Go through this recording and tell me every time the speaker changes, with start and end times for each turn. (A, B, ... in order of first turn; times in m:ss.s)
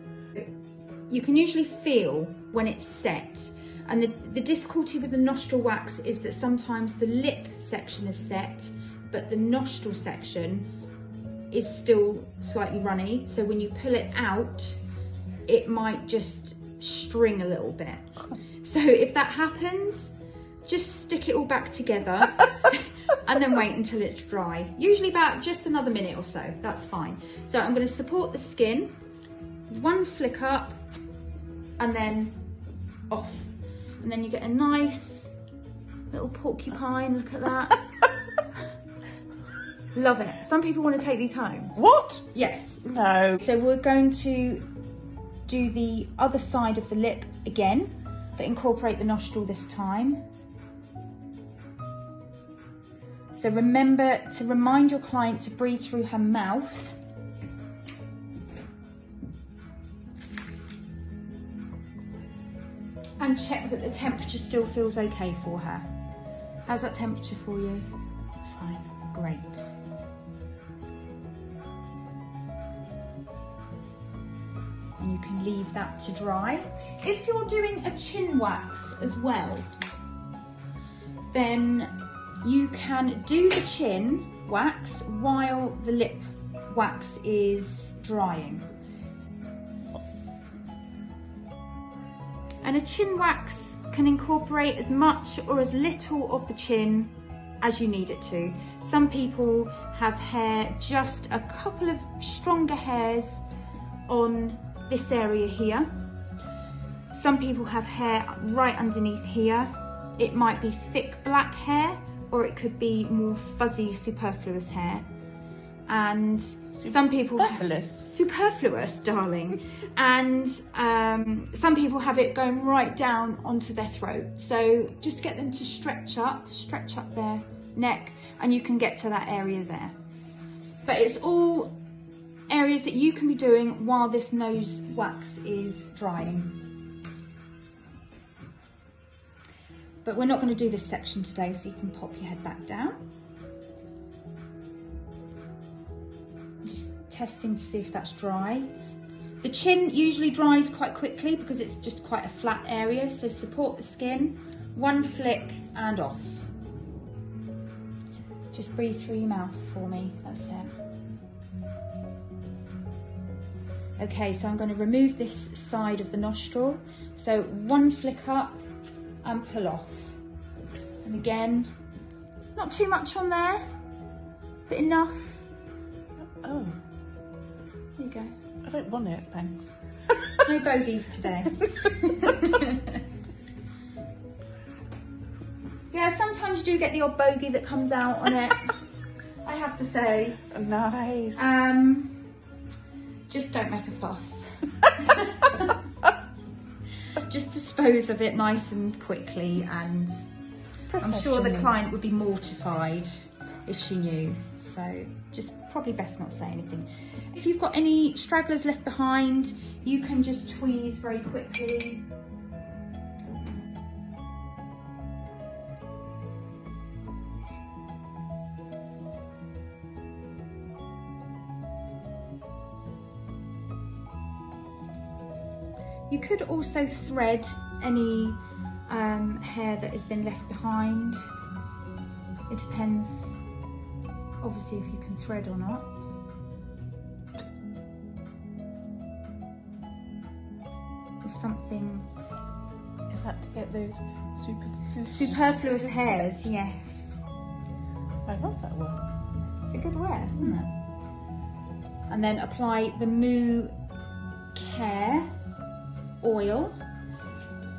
0:01.1-0:10.7 A
0:11.5-0:14.8 A
0:15.5-0:28.9 A
0:29.7-0:30.8 A
0:31.8-0:32.4 A
0:33.1-0:35.3 A
0:36.1-0:37.9 A
0:39.9-0:41.8 A
0:41.8-0:42.3 B
0:42.3-0:44.7 A
0:42.8-0:43.4 B
0:45.5-0:50.2 A
0:53.3-0:57.0 A
1:03.2-1:05.9 A
1:06.7-1:07.9 A
1:08.5-1:09.7 A
1:15.0-1:19.7 A
1:21.3-1:28.7 A
1:32.6-1:43.4 A
1:44.1-1:45.9 A
1:47.1-1:55.1 A
1:55.9-2:10.0 A
1:56.8-1:58.0 B
2:10.9-2:11.8 A
2:12.5-2:16.6 A
2:20.0-2:23.0 A
2:26.6-2:28.7 A
2:29.4-2:36.5 A
2:38.5-2:40.7 A
2:44.0-2:48.6 A
2:49.2-2:50.2 A
2:51.0-2:51.8 A
2:52.6-2:53.7 A
2:54.7-2:55.5 A
2:56.3-2:56.8 B
2:58.0-2:58.3 A
2:58.6-3:00.5 B
3:00.4-3:03.0 A
3:05.9-3:08.8 A
3:09.4-3:10.5 A
3:10.5-3:11.4 B
3:11.4-3:12.3 A
3:13.3-3:15.8 A
3:17.2-3:20.2 A
3:20.9-3:21.7 B
3:21.0-3:32.1 A
3:46.1-3:51.2 A
3:52.5-3:53.4 A
3:54.4-3:55.9 A
4:01.2-4:02.1 A
4:03.1-4:06.3 B
4:05.0-4:07.3 A
4:08.2-4:09.0 B
4:09.7-4:10.7 A
4:12.1-4:13.7 A
4:14.5-4:15.3 A
4:16.2-4:16.8 A